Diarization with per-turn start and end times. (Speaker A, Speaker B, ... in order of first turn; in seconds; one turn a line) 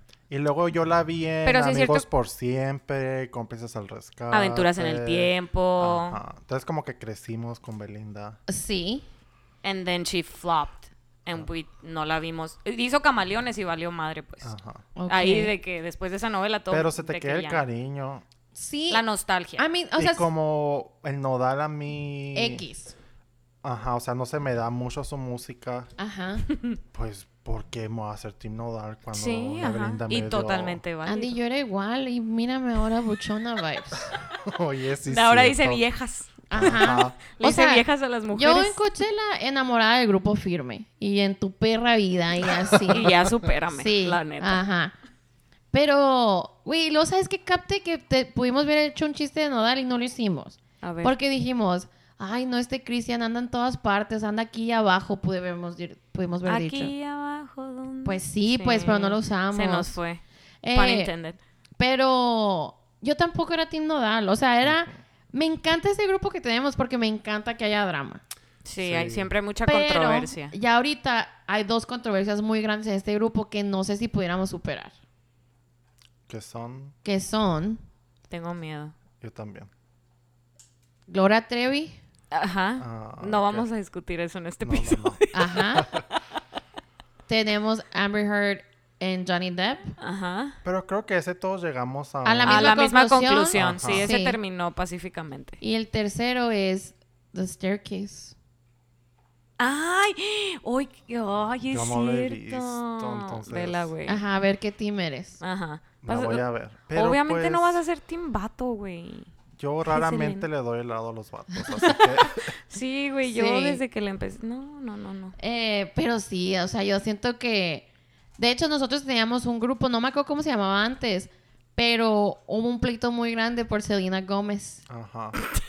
Speaker A: 0.3-8.4
Speaker B: 1.4-2.0
Speaker B: 4.3-6.2
Speaker C: 8.5-9.1
Speaker B: 9.6-14.5
Speaker A: 14.4-14.8
Speaker C: 14.9-15.5
Speaker B: 15.1-17.6
Speaker A: 16.7-18.2
Speaker C: 18.5-19.0
Speaker B: 18.9-19.6
Speaker C: 19.6-20.3
Speaker A: 20.0-22.6
Speaker C: 22.3-22.9
Speaker A: 23.6-25.9
Speaker C: 26.0-26.4
Speaker A: 26.9-30.8
Speaker B: 29.1-31.4
Speaker C: 31.1-34.1
Speaker A: 34.2-35.8
Speaker B: 35.1-38.8
Speaker C: 36.5-43.1
Speaker A: 36.5-37.2
Speaker B: 42.9-44.6
Speaker C: 43.7-44.9
Speaker C: 45.7-56.9
Speaker B: 50.8-51.1
Speaker B: 56.5-60.2
Speaker C: 58.0-60.0
Speaker C: 60.6-61.1
Speaker B: 60.7-61.4
Speaker C: 61.8-68.2
Speaker A: 64.6-65.0
Speaker B: 68.6-70.5
Speaker A: 68.8-69.3
Speaker C: 69.6-74.9
Speaker A: 76.3-76.9
Speaker C: 77.0-77.8
Speaker B: 78.3-78.9
Speaker A: 79.2-79.7
Speaker C: 81.1-82.0
Speaker B: 82.3-86.2
Speaker A: 82.8-83.7
Speaker A: 84.6-85.2
Speaker C: 85.3-85.9
Speaker A: 85.7-86.0
Speaker C: 87.3-89.9
Speaker B: 90.0-90.5
Speaker A: 90.6-92.8
Speaker C: 92.2-94.4
Speaker B: 92.4-95.6
Speaker A: 93.5-94.1
Speaker C: 95.6-98.3
Speaker B: 99.6-104.2
Speaker A: 101.7-103.9
Speaker C: 104.0-105.4
Speaker B: 105.4-109.3
Speaker A: 106.0-107.8
Speaker A: 109.6-112.5
Speaker B: 109.9-110.5
Speaker B: 112.3-115.3
Speaker C: 113.2-113.8
Speaker C: 115.4-124.8
Speaker A: 124.9-125.4